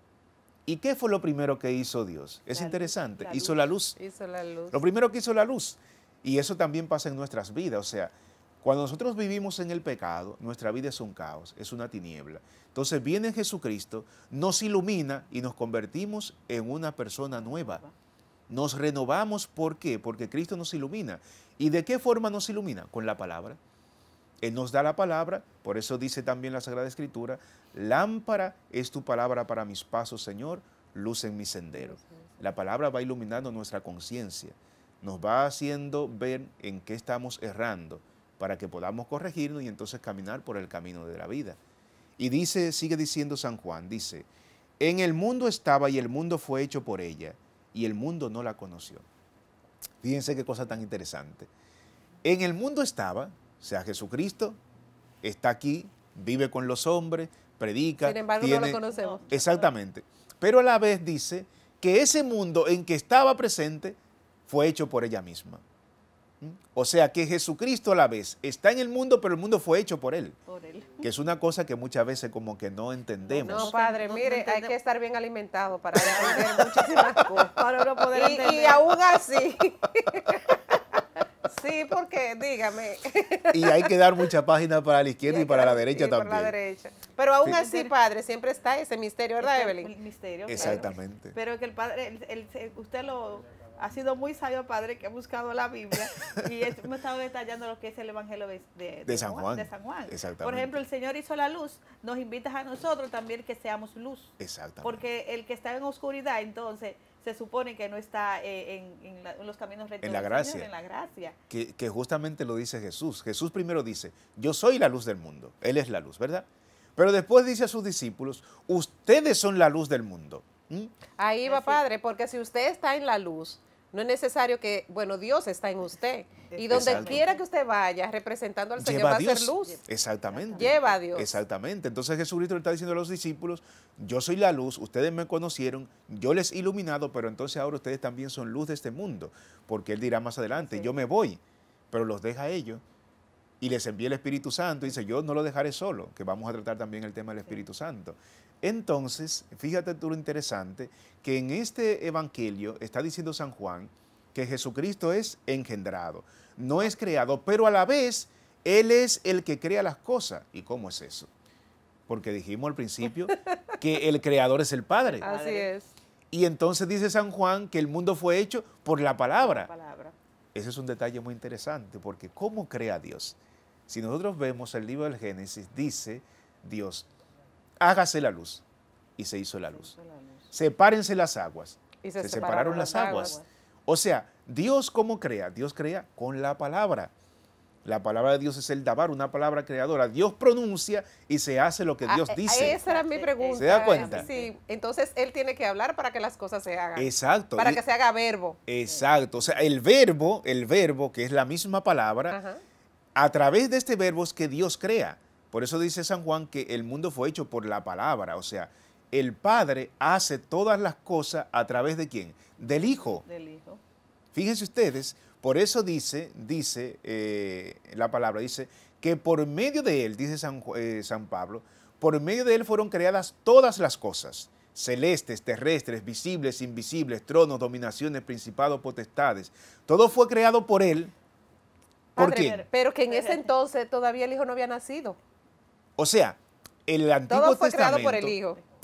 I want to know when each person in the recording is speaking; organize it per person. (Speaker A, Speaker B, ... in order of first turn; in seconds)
Speaker A: 0.7-4.0, 4.7-17.8, 18.5-23.6, 24.4-41.6, 42.2-44.3, 44.8-49.0, 50.0-51.5, 52.2-54.6, 55.2-65.6, 66.4-70.4, 71.0-73.7, 83.5-86.6, 90.5-91.3, 99.1-100.8, 104.4-105.0, 110.0-110.7, 111.5-120.9, 126.7-127.2, 128.8-141.4, 141.9-142.8, 143.6-161.3, 162.1-165.3, 166.3-169.7, 170.5-173.4, 173.9-177.1, 177.8-178.7, 179.2-179.9, 180.5-187.1, 187.8-192.8, 193.6-194.3, 197.0-197.8, 198.7-202.4, 203.2-213.2, 214.3-231.1, 232.2-232.7, 236.0-238.4
Speaker B: 2.5-3.6, 17.4-17.9, 58.9-59.7, 70.5-71.1, 73.3-74.8, 76.0-78.8, 87.4-87.9, 89.4-111.4, 121.5-121.8, 126.5-127.4, 129.6-131.0, 165.1-165.7, 169.4-170.2, 179.7-180.5, 182.5-183.5, 192.6-194.5, 198.9-199.6, 212.8-213.8, 233.1-233.5
Speaker C: 4.0-4.8, 58.0-59.2, 73.4-77.5, 78.1-80.8, 81.5-83.9, 85.3-89.9, 90.6-90.8, 121.2-129.8, 130.6-131.4, 165.2-165.9, 182.0-183.4, 192.1-198.6, 202.3-202.6, 232.2-235.2, 237.3-238.6